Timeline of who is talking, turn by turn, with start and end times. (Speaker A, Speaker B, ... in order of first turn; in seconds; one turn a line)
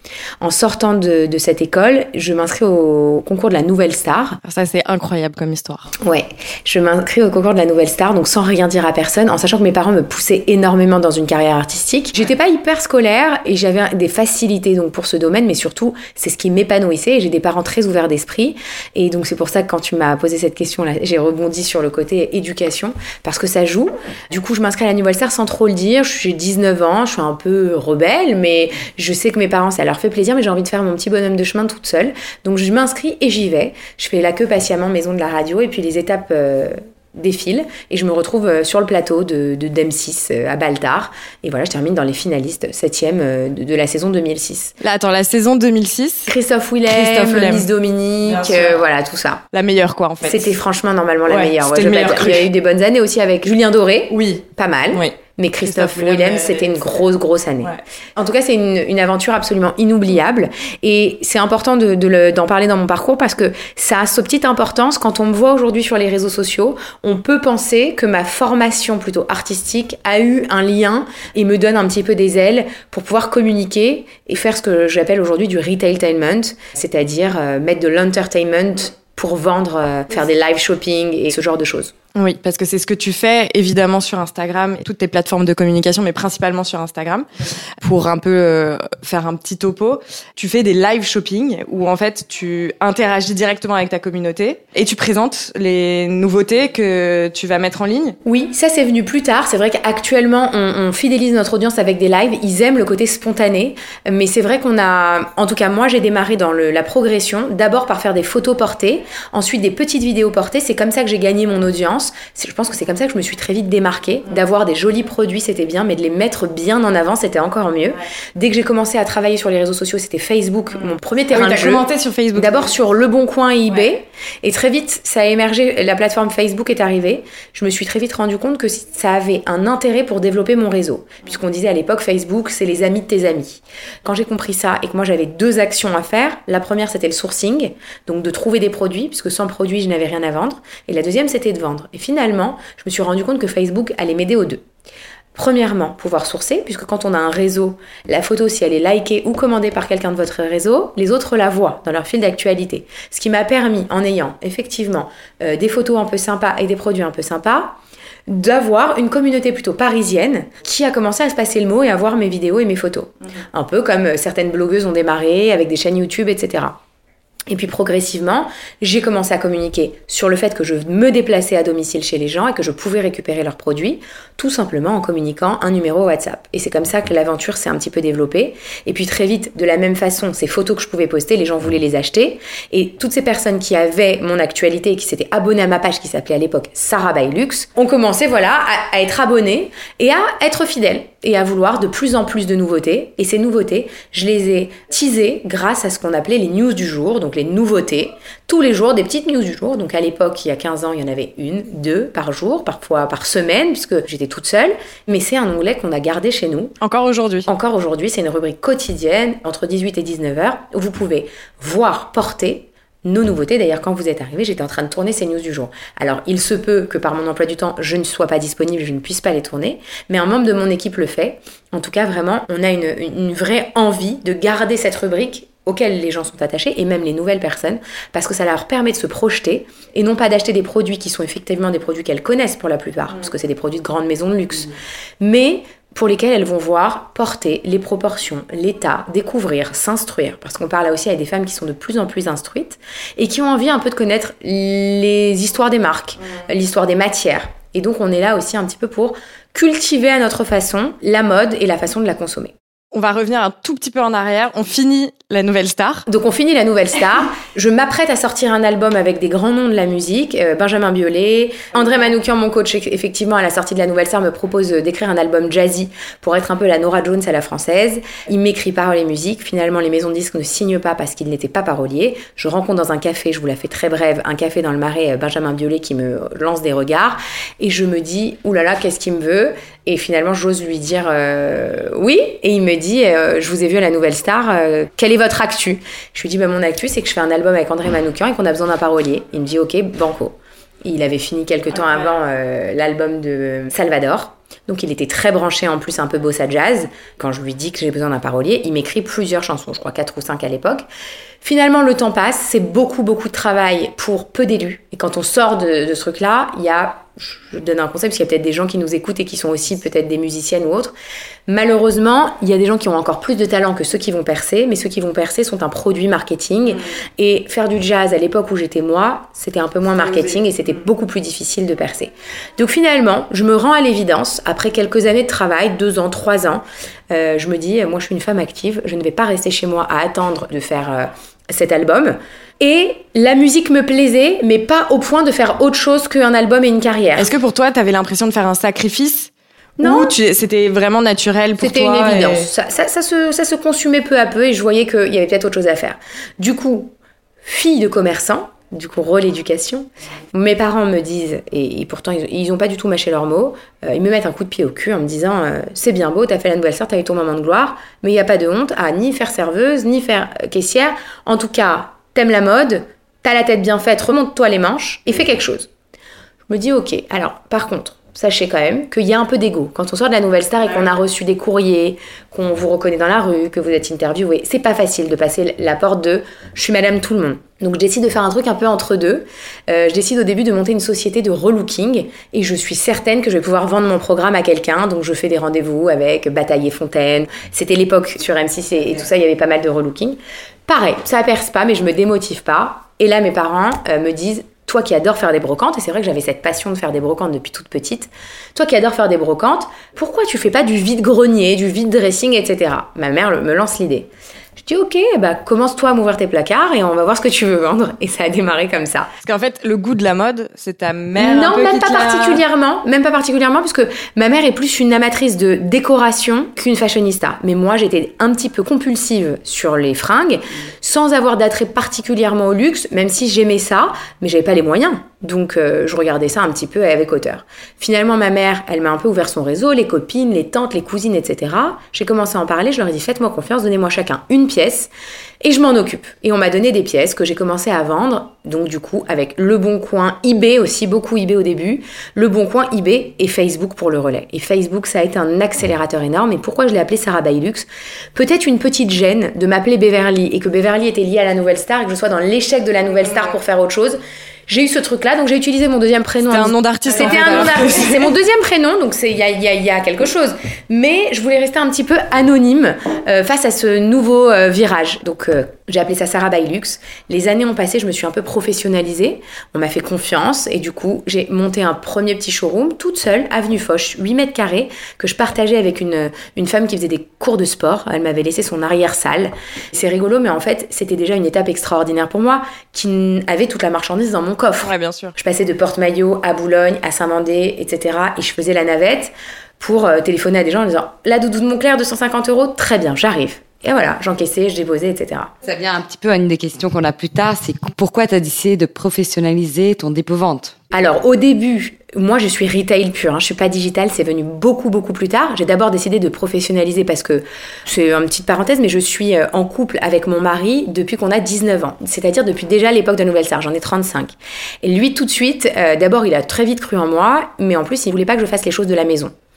Speaker A: 0.4-4.4
Speaker B: 4.4-5.9
Speaker A: 6.0-44.7
Speaker B: 44.8-46.3
Speaker A: 46.3-49.4
Speaker B: 46.9-47.7
Speaker B: 48.2-48.8
Speaker B: 49.5-50.5
Speaker A: 50.2-81.9
Speaker B: 51.3-52.5
Speaker B: 54.1-56.8
Speaker B: 82.1-87.2
Speaker B: 87.8-98.2
Speaker A: 98.2-144.6
Speaker B: 121.3-122.7
Speaker A: 145.3-166.8
Speaker A: 167.5-206.7
Speaker B: 206.8-207.5
Speaker A: 207.5-252.5
Speaker B: 252.9-256.0
Speaker A: 256.1-300.9
Speaker A: 301.4-310.9
Speaker A: 311.5-337.3
Speaker B: 337.1-342.5
Speaker A: 339.8-340.1
Speaker A: 341.6-365.7
Speaker A: 366.5-409.1
Speaker B: 409.2-412.4
Speaker A: 411.2-495.3
Speaker B: 456.2-458.1
Speaker B: 484.6-485.1
Speaker C: 495.4-500.6
Speaker A: 500.7-519.1